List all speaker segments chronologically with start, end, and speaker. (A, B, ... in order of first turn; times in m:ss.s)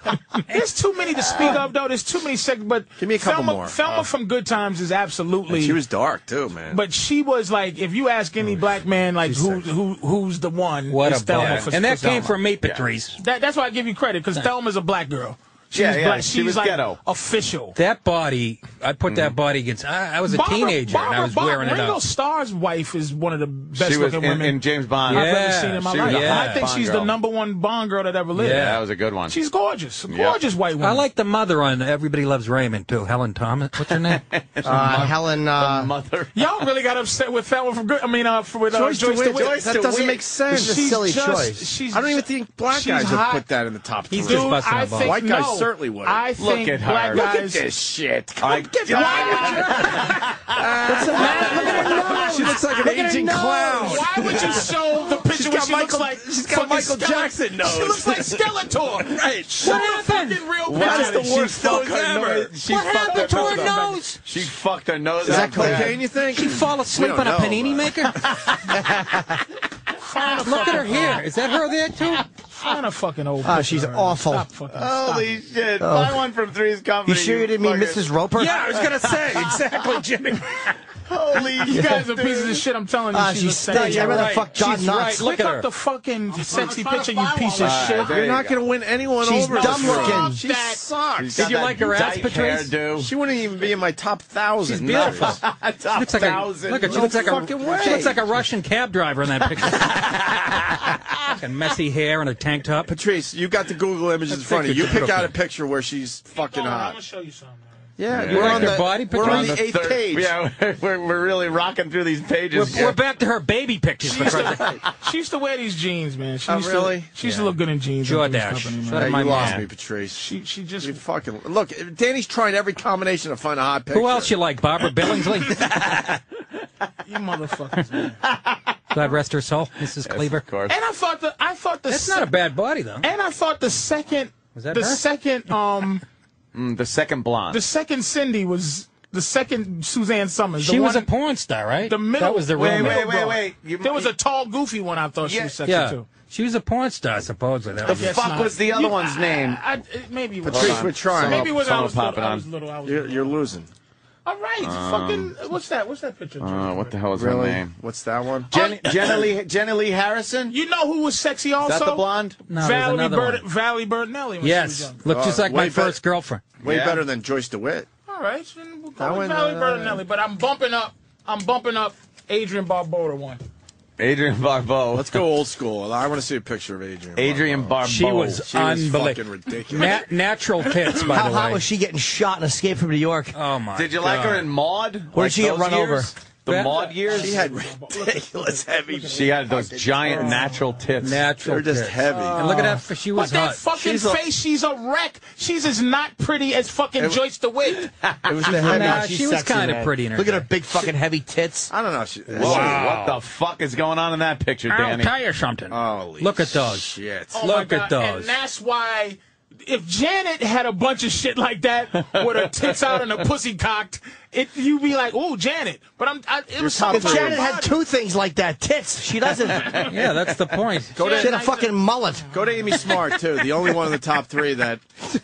0:00.4-0:05.8 A
0:03.0-0:03.8 B
0:05.5-0:06.8 B
0:06.7-0:12.3 A
0:09.3-0:09.6 C
0:10.9-0:13.2 C
0:11.4-0:12.8 D
0:13.2-0:17.8 A
0:15.7-0:17.0 D
0:17.8-0:22.0 C
0:19.1-0:19.3 D
0:20.2-0:28.8 A
0:23.8-0:27.1 D
0:25.1-0:26.6 C
0:28.4-0:28.8 C
0:28.4-0:29.3 D
0:29.3-0:31.0 A
0:30.1-0:30.4 D
0:30.8-0:34.2 C
0:33.9-0:36.5 D
0:34.6-0:35.9 E
0:36.3-0:39.6 A
0:38.7-0:40.8 B
0:39.3-0:40.2 D
0:40.5-0:43.4 A
0:40.5-0:41.7 E
0:41.9-0:46.2 B
0:44.1-0:45.2 C
0:44.2-0:47.7 A
0:46.4-0:47.2 D
0:47.1-0:50.0 B
0:48.4-0:52.5 D
0:48.8-0:50.2 A
0:50.5-0:59.9 B
0:50.9-0:54.0 C
0:51.1-0:52.9 A
0:53.7-1:01.8 A
0:59.6-1:00.5 C
1:00.7-1:06.0 D
1:00.7-1:02.6 B
1:02.6-1:04.2 C
1:02.6-1:04.0 A
1:05.2-1:06.0 E
1:05.2-1:08.4 B
1:06.3-1:08.3 C
1:08.1-1:08.9 D
1:08.7-1:09.4 E
1:10.0-1:11.2 A
1:10.3-1:12.3 C
1:12.5-1:15.3 A
1:13.4-1:14.5 E
1:14.7-1:18.1 D
1:15.8-1:16.2 E
1:17.0-1:18.6 E
1:18.3-1:20.8 C
1:18.8-1:19.7 D
1:21.0-1:22.2 D
1:21.6-1:24.4 A
1:21.7-1:22.1 E
1:23.1-1:25.2 E
1:23.7-1:25.7 C
1:25.2-1:28.2 A
1:26.5-1:27.0 C
1:27.5-1:28.6 D
1:27.9-1:31.5 B
1:29.2-1:30.4 E
1:29.5-1:30.8 A
1:31.2-1:33.1 D
1:31.4-1:32.8 C
1:33.0-1:35.4 B
1:34.7-1:38.1 D
1:34.7-1:42.9 C
1:36.2-1:38.4 B
1:39.4-1:41.4 D
1:42.9-1:47.0 B
1:44.3-1:45.3 C
1:46.3-1:47.8 A
1:48.0-1:50.2 B
1:48.1-1:53.0 D
1:48.2-1:50.0 C
1:52.5-1:54.8 C
1:54.0-1:59.2 A
1:54.2-1:54.8 D
1:56.5-1:57.1 B
1:57.2-1:59.6 C
1:58.9-2:00.2 B
1:59.3-1:59.6 D
2:00.1-2:01.0 A
2:00.8-2:04.4 B
2:03.9-2:06.2 C
2:07.0-2:08.2 A
2:08.2-2:08.6 D
2:08.9-2:10.4 C
2:10.0-2:10.8 D
2:10.7-2:12.3 A
2:11.9-2:13.1 C
2:13.0-2:16.0 A
2:14.5-2:15.0 C
2:16.5-2:17.6 D
2:17.5-2:21.1 A
2:20.6-2:23.1 C
2:21.9-2:26.1 A
2:22.5-2:24.1 D
2:25.2-2:25.6 D
2:25.7-2:28.2 C
2:27.8-2:29.6 D
2:27.8-2:33.4 A
2:30.4-2:31.5 B
2:30.5-2:32.4 D
2:32.8-2:33.7 B
2:34.2-2:36.9 A
2:34.6-2:35.3 D
2:36.4-2:37.7 D
2:37.1-2:39.3 B
2:38.5-2:40.6 D
2:40.5-2:45.0 A
2:41.6-2:42.4 D
2:42.5-2:43.4 C
2:44.4-2:46.5 C
2:45.1-2:46.0 B
2:46.6-2:47.9 B
2:46.6-2:47.0 D
2:48.1-2:53.4 A
2:49.0-2:50.0 B
2:54.0-2:55.3 D
2:54.9-2:57.8 B
2:57.2-2:58.4 D
2:57.8-3:01.6 C
2:58.4-3:00.0 B
2:59.7-3:00.0 A
3:01.0-3:03.4 E
3:03.3-3:04.5 C
3:03.7-3:07.4 D
3:05.1-3:06.1 E
3:06.5-3:06.8 C
3:06.6-3:10.6 A
3:07.1-3:10.4 B
3:09.1-3:11.2 D
3:11.0-3:13.6 C
3:11.4-3:12.5 B
3:12.0-3:17.9 A
3:13.7-3:14.2 B
3:18.2-3:19.0 B
3:18.3-3:21.7 E
3:18.5-3:20.5 C
3:21.7-3:23.2 B
3:22.3-3:25.1 D
3:22.4-3:23.2 C
3:24.7-3:28.3 C
3:25.7-3:27.4 B
3:27.3-3:37.7 A
3:32.1-3:33.2 D
3:36.6-3:37.5 B
3:36.9-3:39.9 E
3:39.6-3:39.9 D
3:39.8-3:41.0 C
3:41.0-3:41.4 B
3:41.0-3:43.1 A
3:41.0-3:42.3 E
3:42.3-3:44.8 B